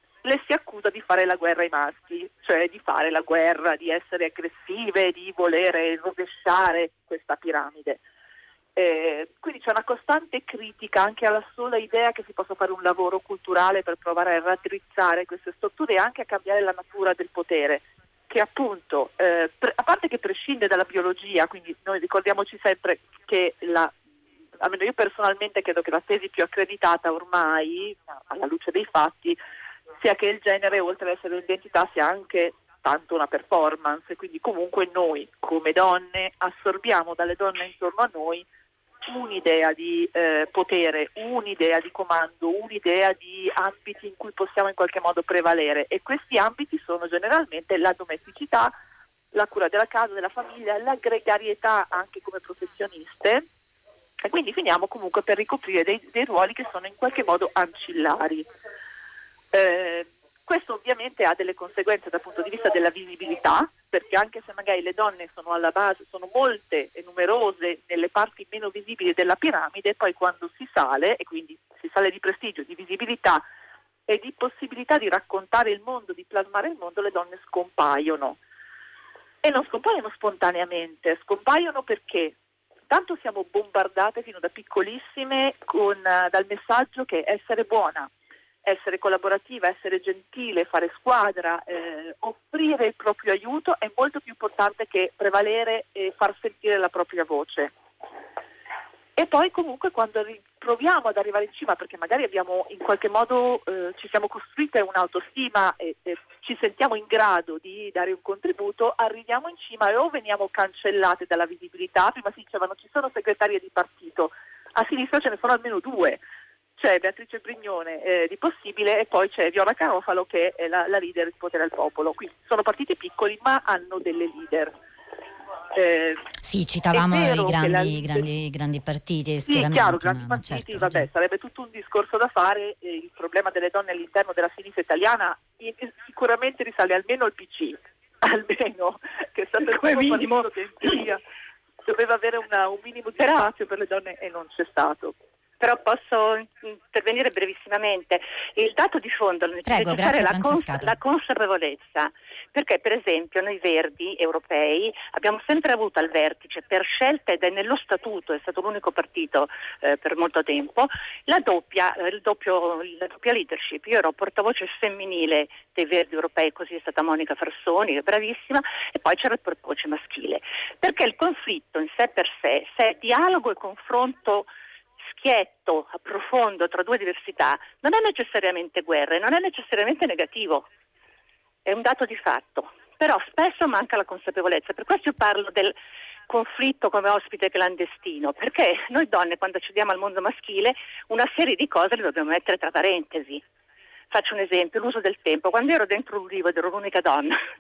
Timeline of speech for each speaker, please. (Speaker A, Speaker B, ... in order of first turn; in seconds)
Speaker A: 0.2-8.0, 8.8-23.9, 24.6-29.4, 30.0-38.5, 39.0-48.7, 49.3-53.5, 54.2-58.5, 59.5-73.4, 74.1-78.4, 79.4-82.3, 82.9-88.1, 88.7-97.7, 99.2-116.2, 116.8-124.8, 125.7-126.3, 126.9-128.3, 129.4-141.2, 141.9-145.1
Speaker B: 126.4-131.1, 149.7-150.9
Speaker C: 139.8-140.4, 145.6-174.5, 175.2-180.7, 181.7-185.8, 186.3-193.4, 194.1-197.4